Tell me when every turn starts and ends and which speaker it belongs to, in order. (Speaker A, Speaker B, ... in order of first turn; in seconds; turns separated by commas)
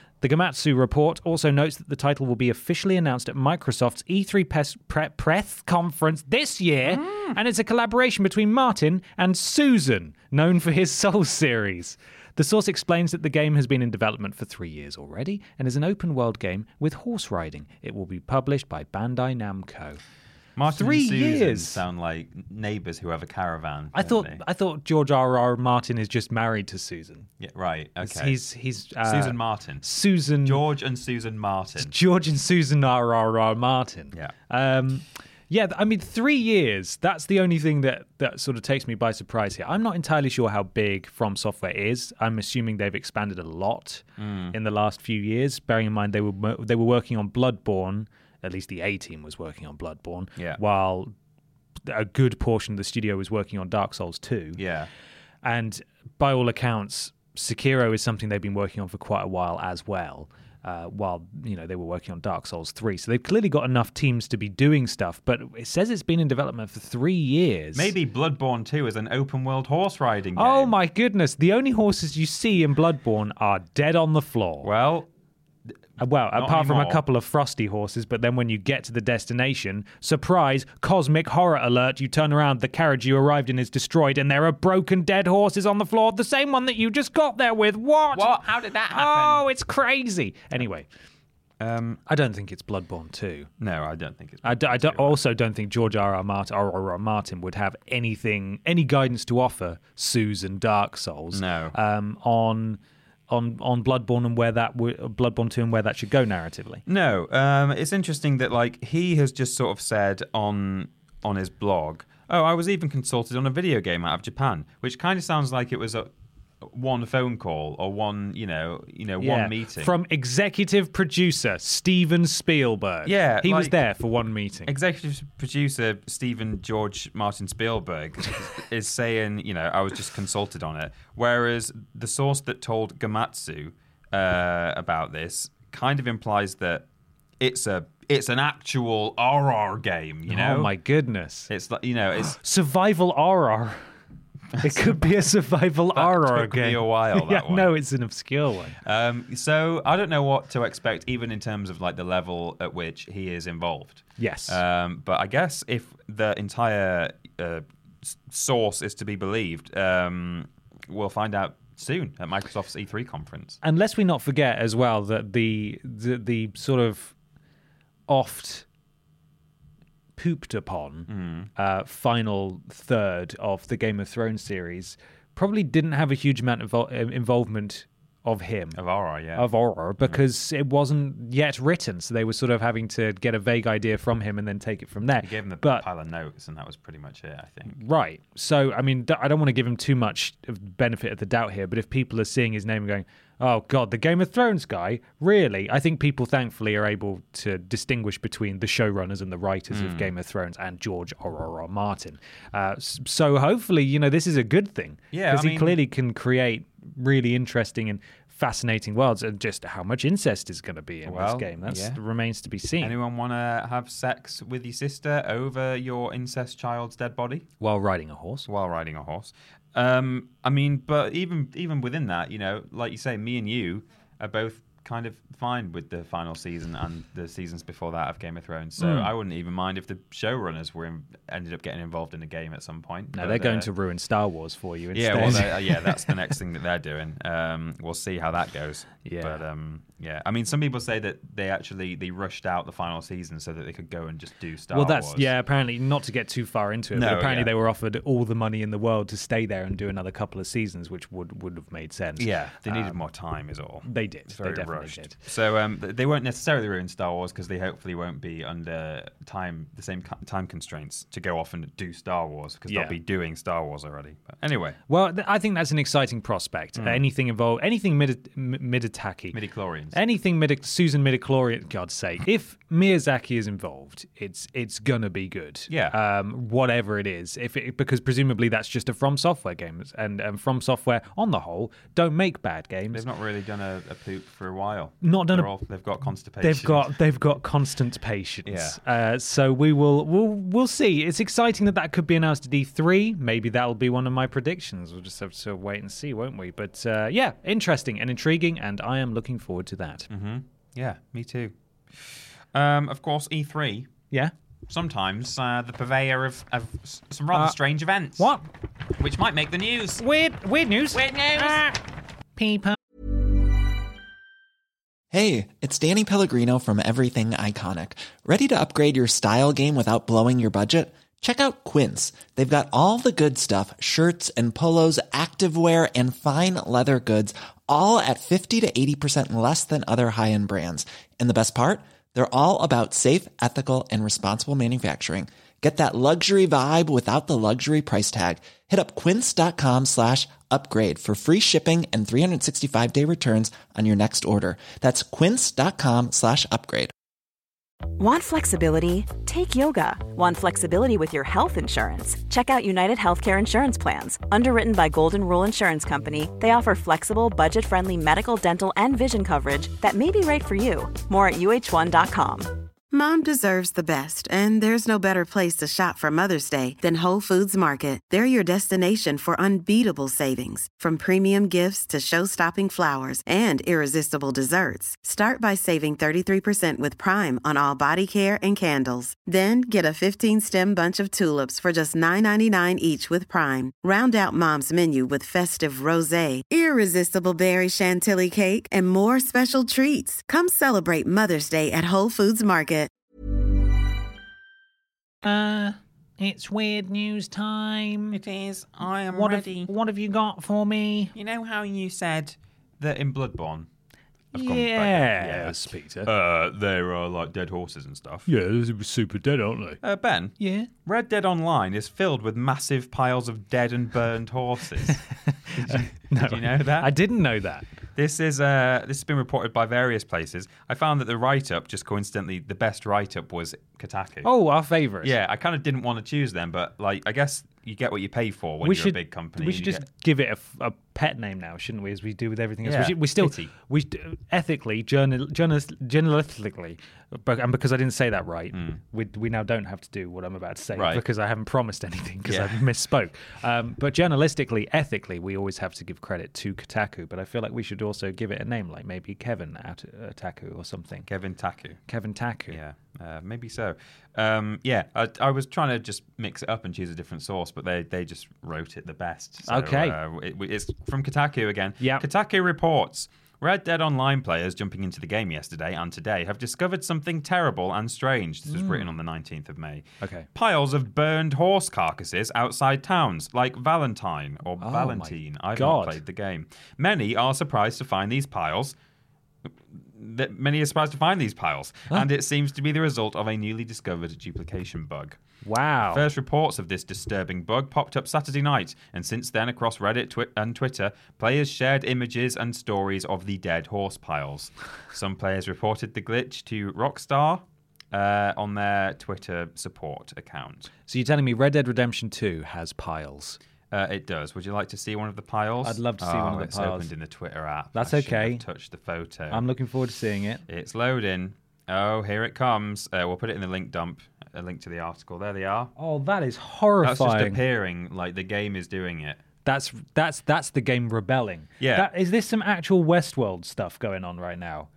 Speaker A: 0.2-20.0, Speaker B: 6.8-7.3, Speaker B: 20.6-24.4, Speaker A: 20.7-21.8, Speaker A: 23.9-27.3, Speaker B: 27.4-28.4, Speaker A: 28.0-30.6, Speaker B: 29.0-29.8, Speaker B: 30.4-31.9, Speaker A: 31.8-51.1, Speaker B: 44.2-44.5, Speaker B: 50.4-50.6, Speaker A: 51.9-54.6, Speaker B: 54.5-54.9, Speaker A: 55.4-67.9, Speaker B: 67.7-70.7, Speaker A: 70.3-74.7, Speaker B: 74.6-75.1, Speaker A: 76.0-90.9, Speaker B: 76.3-77.0, Speaker B: 88.1-89.4, Speaker B: 91.6-92.0, Speaker A: 92.1-93.5, Speaker B: 93.6-95.2, Speaker A: 94.4-106.8, Speaker B: 101.3-101.7, Speaker B: 106.8-116.1, Speaker B: 116.6-119.9, Speaker A: 119.2-124.7, Speaker B: 123.0-123.8, Speaker B: 124.7-136.8, Speaker B: 137.4-140.7, Speaker A: 140.3-141.5, Speaker B: 141.5-142.4, Speaker A: 142.3-143.8, Speaker B: 144.6-145.1, Speaker A: 144.6-148.8, Speaker B: 145.9-147.7, Speaker B: 148.8-163.6, Speaker A: 154.2-154.6, Speaker A: 163.6-167.1, Speaker A: 168.1-168.7, Speaker A: 170.2-178.8, Speaker B: 171.1-171.5, Speaker B: 178.7-179.5, Speaker A: 179.3-185.8, Speaker B: 185.2-187.8, Speaker A: 187.7-212.9, Speaker B: 199.7-200.1, Speaker B: 205.1-205.8, Speaker B: 211.1-212.0, Speaker B: 212.8-217.5, Speaker A: 217.6-218.5, Speaker B: 218.5-233.7, Speaker A: 228.8-229.1, Speaker A: 233.1-236.1, Speaker B: 234.9-245.3, Speaker A: 239.0-239.4, Speaker A: 244.7-252.9, Speaker B: 246.9-247.5, Speaker B: 252.2-264.8, Speaker A: 253.8-255.2, Speaker A: 262.7-262.9, Speaker A: 264.9-269.4, Speaker B: 266.8-267.0, Speaker B: 269.3-270.0, Speaker A: 269.9-283.0, Speaker B: 275.7-276.0, Speaker B: 282.9-286.9, Speaker A: 285.0-285.5, Speaker A: 286.4-300.1, Speaker B: 288.4-288.8, Speaker B: 300.1-303.9, Speaker B: 304.7-308.3, Speaker A: 308.2-308.4, Speaker B: 308.9-310.0, Speaker A: 310.0-311.8, Speaker B: 310.9-311.7, Speaker A: 312.4-312.8, Speaker C: 315.1-346.9, Speaker D: 348.0-362.6, Speaker E: 362.9-392.9, Speaker A: 395.2-398.2, Speaker B: 398.1-399.7, Speaker A: 399.1-401.1, Speaker B: 401.1-403.7, Speaker B: 404.3-408.3, Speaker A: 404.3-406.1, Speaker A: 408.3-409.8, Speaker B: 409.8-415.0, Speaker A: 410.4-410.7, Speaker A: 415.3-417.6, Speaker B: 415.5-416.9, Speaker B: 417.9-424.3, Speaker A: 424.2-425.1, Speaker B: 425.0-429.8, Speaker A: 428.6-451.1, Speaker B: 432.6-433.5, Speaker B: 438.5-438.8, Speaker B: 440.7-441.0, Speaker B: 442.2-442.7, Speaker B: 451.1-451.8, Speaker A: 451.9-452.6, Speaker B: 452.5-478.8, Speaker A: 459.4-460.0, Speaker A: 461.8-462.1, Speaker A: 468.5-468.9, Speaker A: 470.0-470.3, Speaker A: 474.6-476.0, Speaker B: 479.5-485.2, Speaker A: 485.4-486.0, Speaker B: 485.8-500.7, Speaker A: 500.9-503.4, Speaker B: 503.7-509.4, Speaker A: 505.6-506.9, Speaker A: 507.7-508.4, Speaker A: 509.3-510.4, Speaker B: 510.5-515.7, Speaker A: 515.8-517.4, Speaker B: 516.8-519.2, Speaker A: 519.4-524.7, Speaker B: 521.6-521.9